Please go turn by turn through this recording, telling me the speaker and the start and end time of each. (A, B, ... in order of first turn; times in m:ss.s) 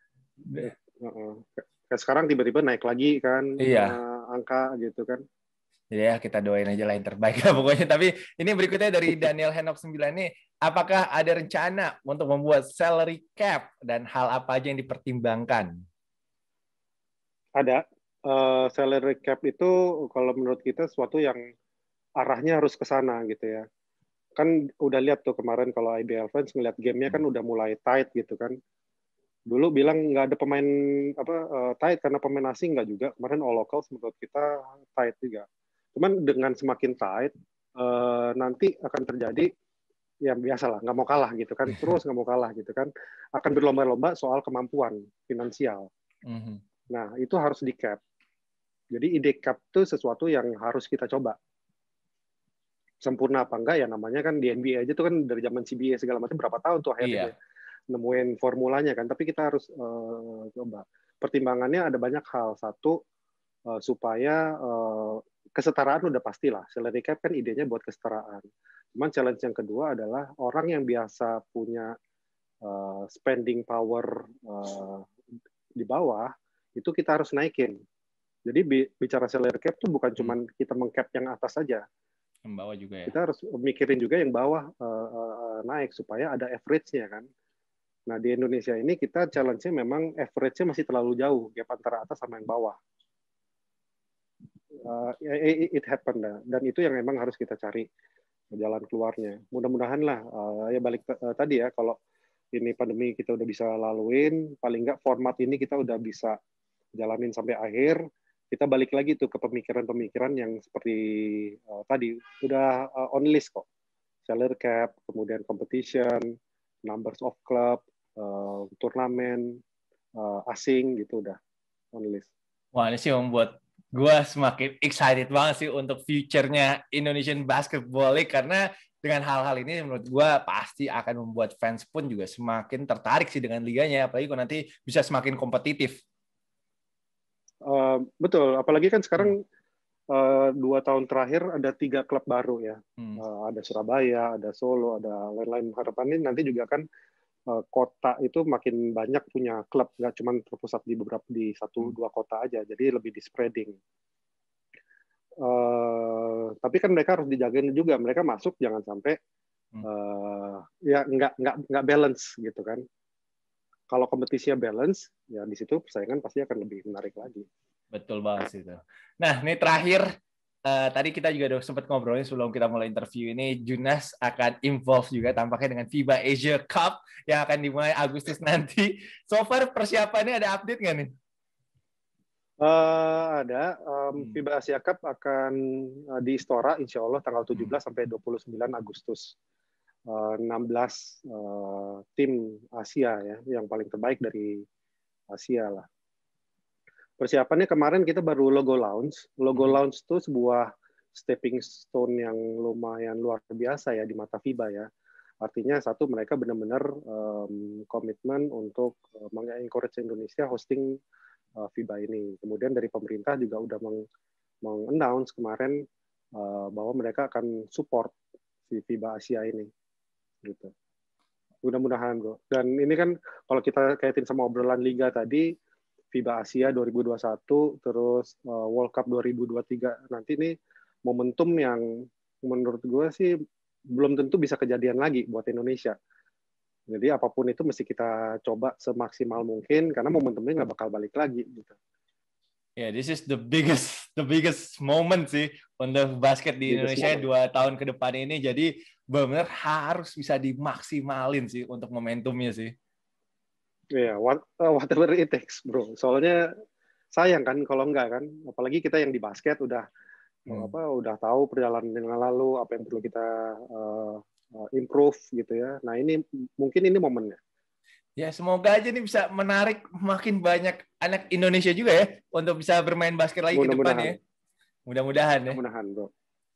0:00.6-0:05.2 A
0:03.6-0:04.0 B
0:05.9-0:15.8 B
0:17.6-0:21.4 A
0:22.2-0:23.6 A
0:24.4-0:28.5 A
0:29.5-0:39.5 A
0:40.2-0:45.9 A
0:46.2-0:46.6 B
0:46.9-0:48.0 A
0:48.9-0:51.4 A
0:53.0-0:57.3 A
0:57.0-0:57.3 B
0:57.9-1:03.0 A
1:03.7-1:11.9 A
1:12.6-1:15.1 A
1:15.8-1:17.8 A
1:18.4-1:21.8 A
1:22.5-1:23.1 B
1:23.1-1:27.2 A
1:28.1-1:32.8 A
1:34.8-1:37.8 A
1:38.6-1:42.0 A
1:42.5-1:46.4 A
1:47.0-1:48.0 A
1:48.5-1:53.6 A
1:54.2-1:56.2 A
1:56.9-1:59.6 A
2:00.2-2:01.4 A
2:01.9-2:02.3 A
2:02.7-2:15.9 B
2:17.7-2:19.4 A
2:20.1-2:26.8 A
2:27.5-2:33.8 A
2:35.4-2:39.2 A
2:39.8-2:42.8 A
2:43.9-2:47.4 A
2:47.9-2:50.0 B
2:50.7-3:01.1 B
3:02.6-3:09.3 A
3:10.1-3:14.6 A
3:15.3-3:15.8 A
3:17.2-3:24.9 A
3:25.4-3:30.8 A
3:31.6-3:34.0 A
3:34.6-3:35.8 A
3:36.4-3:38.1 A
3:38.7-3:39.7 A
3:40.4-3:40.7 A
3:41.6-3:45.4 A
3:46.1-3:50.5 A
3:51.1-3:51.8 A
3:52.4-3:53.3 A
3:53.9-3:55.9 A
3:56.9-4:01.8 A
4:02.8-4:12.7 B
4:06.7-4:07.2 A
4:13.9-4:16.4 A
4:17.2-4:19.8 A
4:20.4-4:27.4 A
4:28.2-4:34.2 B
4:33.5-4:34.2 A
4:34.9-4:35.6 B
4:35.5-4:36.1 A